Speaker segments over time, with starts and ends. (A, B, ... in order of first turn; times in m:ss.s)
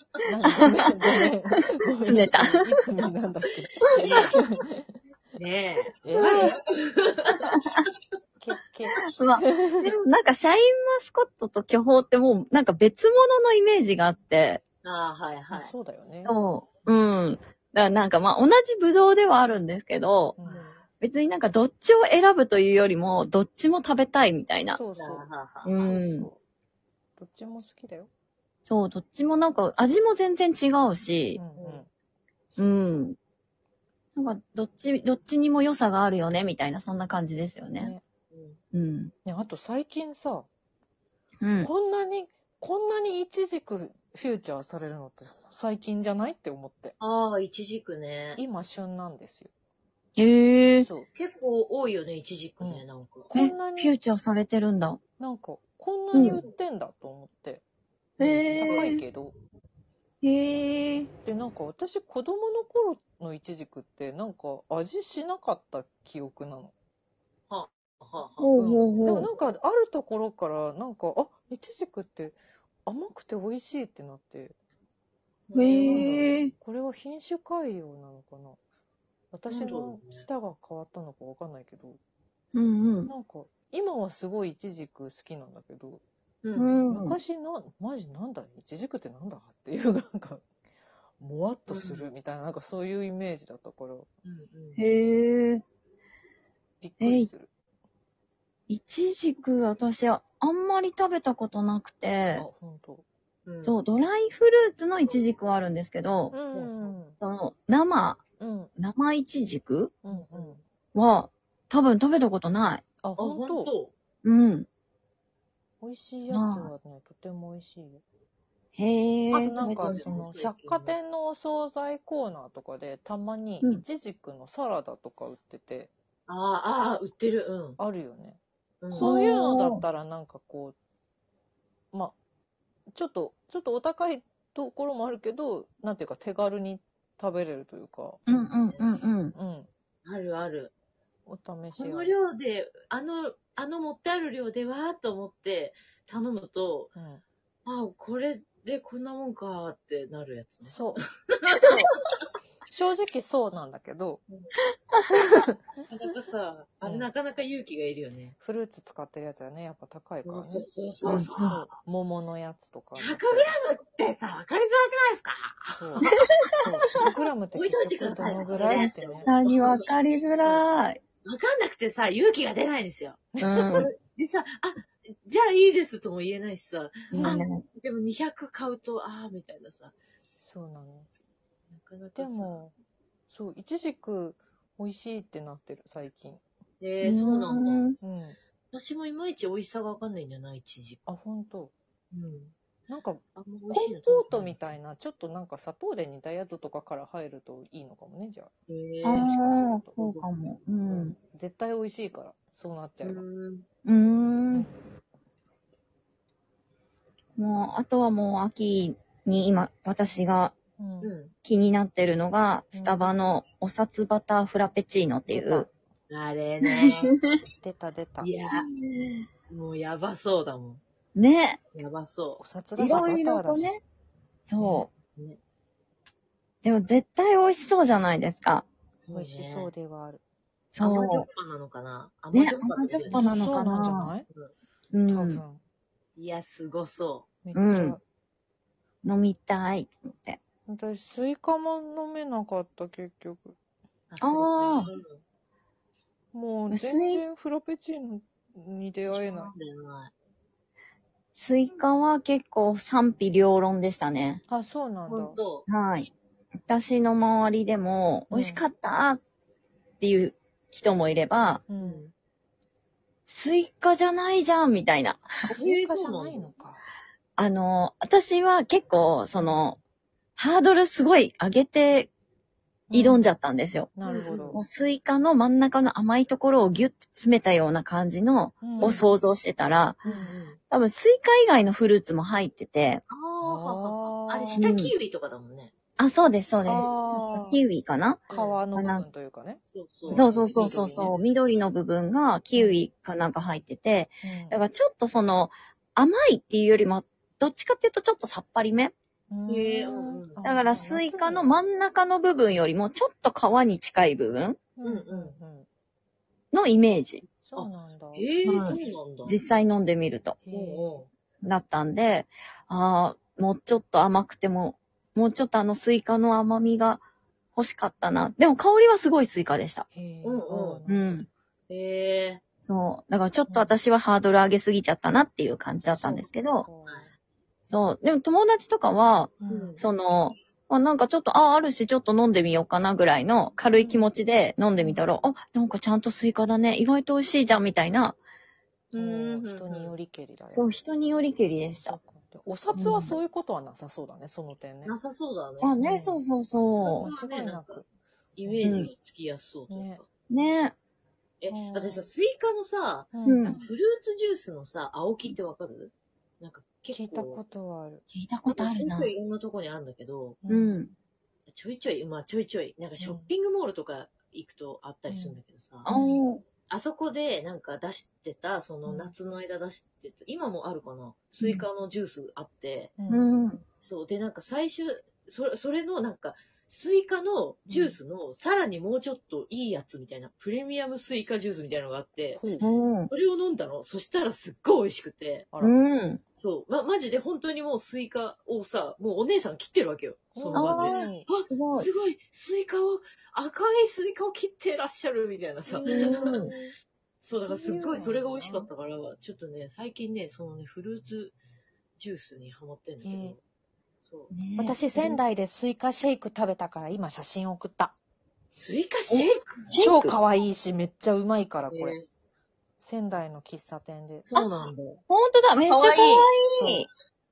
0:00.2-0:04.9 A
0:00.5-0:00.9 B
0:02.0-0:02.6 B
0:04.0-0:04.2 C
0:05.4-0:07.6 C
0:06.0-0:06.6 A
0:06.2-0:06.5 B
0:08.4-0:09.9 A
0:09.1-0:14.6 B
0:14.8-0:15.7 C
0:15.5-0:16.3 A
0:16.2-0:20.4 B
0:20.4-0:20.7 A
0:20.4-0:20.8 C
0:21.0-0:24.8 B
0:24.7-0:26.4 A
0:25.0-0:26.0 C
0:25.6-0:26.3 B
0:27.2-0:28.1 A
0:28.6-0:31.4 B
0:31.4-0:31.9 A
0:31.6-0:31.8 C
0:32.5-0:32.8 A
0:32.6-0:33.2 B
0:34.2-0:37.9 B
0:37.8-0:38.0 A
0:38.3-0:38.6 C
0:38.7-0:39.1 B
0:39.3-0:40.5 A
0:41.4-0:41.7 B
0:41.6-0:47.0 A
0:47.0-0:48.4 C
0:48.4-0:49.5 A
0:50.2-0:50.9 B
0:50.8-0:51.1 A
0:51.2-0:53.3 C
0:52.6-0:53.9 A
0:53.3-0:55.0 B
0:55.2-0:57.6 A
0:56.1-0:56.6 C
0:56.1-0:56.4 B
0:58.2-0:59.0 B
0:58.2-0:59.4 A
0:58.7-0:58.9 C
1:00.2-1:01.1 B
1:01.2-1:06.7 A
1:07.5-1:08.6 C
1:08.4-1:09.3 B
1:08.6-1:14.5 A
1:15.5-1:16.1 C
1:15.6-1:16.5 B
1:15.6-1:18.6 A
1:19.3-1:22.0 A
1:19.5-1:20.2 C
1:22.5-1:23.1 B
1:23.1-1:26.0 A
1:26.4-1:26.8 C
1:26.6-1:27.2 B
1:26.9-1:30.4 A
1:31.2-1:34.1 A
1:31.7-1:32.1 C
1:34.2-1:34.8 C
1:34.8-1:35.6 B
1:36.8-1:37.5 A
1:37.0-1:37.3 B
1:38.7-1:42.5 B
1:42.3-1:43.0 A
1:43.5-1:43.8 C
1:43.6-1:46.4 B
1:46.3-1:47.2 A
1:46.5-1:47.0 C
1:47.2-1:48.2 B
1:48.4-1:48.7 A
1:48.8-1:50.0 B
1:50.0-1:50.6 A
1:50.1-1:50.6 C
1:50.9-1:52.8 B
1:53.0-1:53.7 A
1:53.2-1:53.9 C
1:54.2-1:54.7 B
1:55.8-1:58.0 A
1:56.3-1:56.7 B
1:58.8-2:00.1 B
1:59.3-2:05.9 A
1:59.6-2:01.0 C
2:06.3-2:07.8 C
2:07.8-2:08.4 A
2:08.8-2:09.2 C
2:08.9-2:10.8 A
2:09.0-2:09.8 B
2:12.9-2:18.2 A
2:18.3-2:19.4 B
2:18.3-2:18.9 C
2:19.4-2:19.7 A
2:20.0-2:20.7 C
2:21.3-2:22.2 A
2:21.8-2:26.9 C
2:27.0-2:27.2 A
2:27.7-2:31.9 C
2:30.6-2:31.0 A
2:31.7-2:32.0 A
2:32.7-2:34.2 A
2:34.9-2:35.2 B
2:35.1-2:35.6 A
2:35.9-2:38.4 C
2:36.8-2:37.1 A
2:38.4-2:43.7 A
2:40.2-2:41.7 C
2:41.1-2:41.6 B
2:43.0-2:46.2 C
2:45.7-2:49.3 A
2:47.0-2:49.9 C
2:48.7-2:51.0 B
2:50.4-2:50.7 C
2:51.2-3:00.0 C
2:53.3-2:53.9 A
2:53.4-2:53.9 B
2:57.1-2:57.4 A
2:57.2-2:57.6 B
3:00.4-3:01.1 A
3:01.7-3:02.6 C
3:02.2-3:02.7 A
3:03.3-3:06.4 A
3:06.8-3:07.9 C
3:07.0-3:08.0 B
3:08.0-3:08.4 A
3:08.7-3:11.0 C
3:11.1-3:11.7 A
3:12.1-3:12.5 C
3:12.9-3:18.5 A
3:13.4-3:14.6 C
3:18.7-3:19.3 C
3:19.0-3:21.2 B
3:19.2-3:20.0 A
3:20.0-3:20.3 C
3:20.8-3:21.1 C
3:21.2-3:23.2 A
3:23.0-3:23.7 C
3:23.8-3:24.7 B
3:27.4-3:30.5 B
3:30.8-3:31.1 A
3:31.0-3:31.3 C
3:31.4-3:35.7 B
3:32.7-3:33.2 A
3:35.3-3:35.7 A
3:36.1-3:37.2 C
3:37.6-3:38.3 A
3:38.2-3:38.7 C
3:38.5-3:39.2 B
3:39.5-3:40.8 C
3:41.2-3:41.6 B
3:41.7-3:43.0 C
3:42.4-3:43.8 A
3:42.8-3:43.8 B
3:44.5-3:44.9 B
3:44.6-3:44.9 A
3:46.6-3:48.7 B
3:49.0-3:49.7 C
3:49.1-3:50.2 A
3:50.7-3:51.3 B
3:50.8-3:53.3 C
3:52.3-3:54.1 B
3:53.1-3:54.3 A
3:54.9-3:55.4 B
3:55.1-3:55.6 A
3:56.2-3:57.3 C
3:57.4-3:58.0 A
3:57.5-3:58.0 B
3:59.0-4:00.4 B
4:00.7-4:03.6 A
4:04.1-4:05.2 C
4:04.2-4:04.9 B
4:06.3-4:09.5 A
4:06.7-4:07.2 B
4:09.1-4:10.1 C
4:11.4-4:14.4 B
4:14.5-4:15.4 A
4:15.1-4:15.7 C
4:15.7-4:16.1 B
4:16.7-4:19.2 B
4:18.3-4:18.6 A
4:20.0-4:21.6 B
4:21.7-4:22.1 A
4:21.8-4:22.1 C
4:23.3-4:25.5 B
4:25.4-4:26.8 A
4:25.5-4:26.5 C
4:27.4-4:29.8 B
4:29.3-4:29.6 A
4:30.4-4:32.1 B
4:32.9-4:33.3 A
4:32.9-4:33.9 B
4:34.0-4:34.6 A
4:34.1-4:34.6 C
4:34.5-4:40.0 B
4:38.6-4:39.0 A
4:38.8-4:39.0 C
4:40.0-4:40.3 A
4:40.0-4:40.6 C
4:40.7-4:43.0 B
4:43.1-4:45.7 C
4:43.4-4:44.7 A
4:44.6-4:44.9 B
4:46.0-4:49.1 B
4:46.6-4:47.6 A
4:48.3-4:51.2 A
4:48.3-4:48.6 C
4:49.7-4:51.1 C
4:50.1-4:58.9 B
4:52.5-4:52.9 A
4:54.2-4:54.6 A
4:59.3-5:01.6 A
4:59.5-5:00.4 C
5:00.4-5:04.6 B
5:04.8-5:05.7 A
5:04.8-5:05.4 C
5:06.5-5:07.2 B
5:07.4-5:08.3 A
5:07.6-5:09.4 C
5:08.4-5:10.4 B
5:10.4-5:11.0 A
5:10.5-5:11.1 C
5:11.4-5:17.0 B
5:17.6-5:19.9 B
5:19.9-5:21.3 A
5:20.2-5:20.8 C
5:20.9-5:21.3 B
5:21.7-5:22.4 C
5:22.6-5:26.7 B
5:23.5-5:23.8 A
5:25.9-5:27.1 A
5:27.7-5:38.2 B
5:29.4-5:29.8 A
5:29.5-5:29.8 C
5:34.8-5:35.0 A
5:38.9-5:39.9 C
5:39.0-5:40.7 A
5:40.5-5:42.0 B
5:41.8-5:45.0 A
5:42.7-5:43.2 B
5:44.9-5:45.8 C
5:45.6-5:47.1 B
5:45.8-5:46.2 A
5:46.8-5:47.8 C
5:46.9-5:47.9 A
5:48.4-5:50.0 C
5:48.5-5:48.8 A
5:48.6-5:48.9 B
5:49.7-5:50.0 A
5:50.3-5:50.8 B
5:51.4-5:57.4 C
5:51.5-5:52.1 A
5:53.1-5:53.7 A
5:53.2-5:53.6 B
5:56.9-5:58.0 A
5:58.1-5:59.1 B
5:58.5-6:00.4 C
6:00.4-6:00.8 A
6:00.5-6:00.9 B
6:01.5-6:05.9 C
6:03.0-6:03.3 A
6:05.1-6:06.2 A
6:05.8-6:06.4 B
6:06.7-6:13.0 C
6:08.8-6:09.1 A
6:13.0-6:13.3 A
6:13.1-6:13.6 B
6:13.8-6:22.5 C
6:17.7-6:18.0 A
6:22.4-6:22.7 A
6:22.6-6:23.1 B
6:23.1-6:25.5 C
6:25.6-6:26.2 B
6:26.4-6:36.5 C
6:30.4-6:31.3 A
6:30.5-6:31.9 B
6:35.7-6:36.7 A
6:35.9-6:36.5 B
6:37.2-6:41.4 C
6:37.4-6:38.7 A
6:42.0-6:43.4 C
6:43.0-6:43.4 A
6:44.0-6:44.3 C
6:44.3-6:44.8 B
6:44.6-6:47.9 A
6:48.5-6:49.9 C
6:49.1-6:50.2 B
6:49.8-6:52.0 A
6:51.7-6:52.0 C
6:52.8-6:54.3 A
6:54.3-6:55.0 C
6:55.1-6:56.9 B
6:55.6-6:56.3 C
6:56.5-6:56.9 A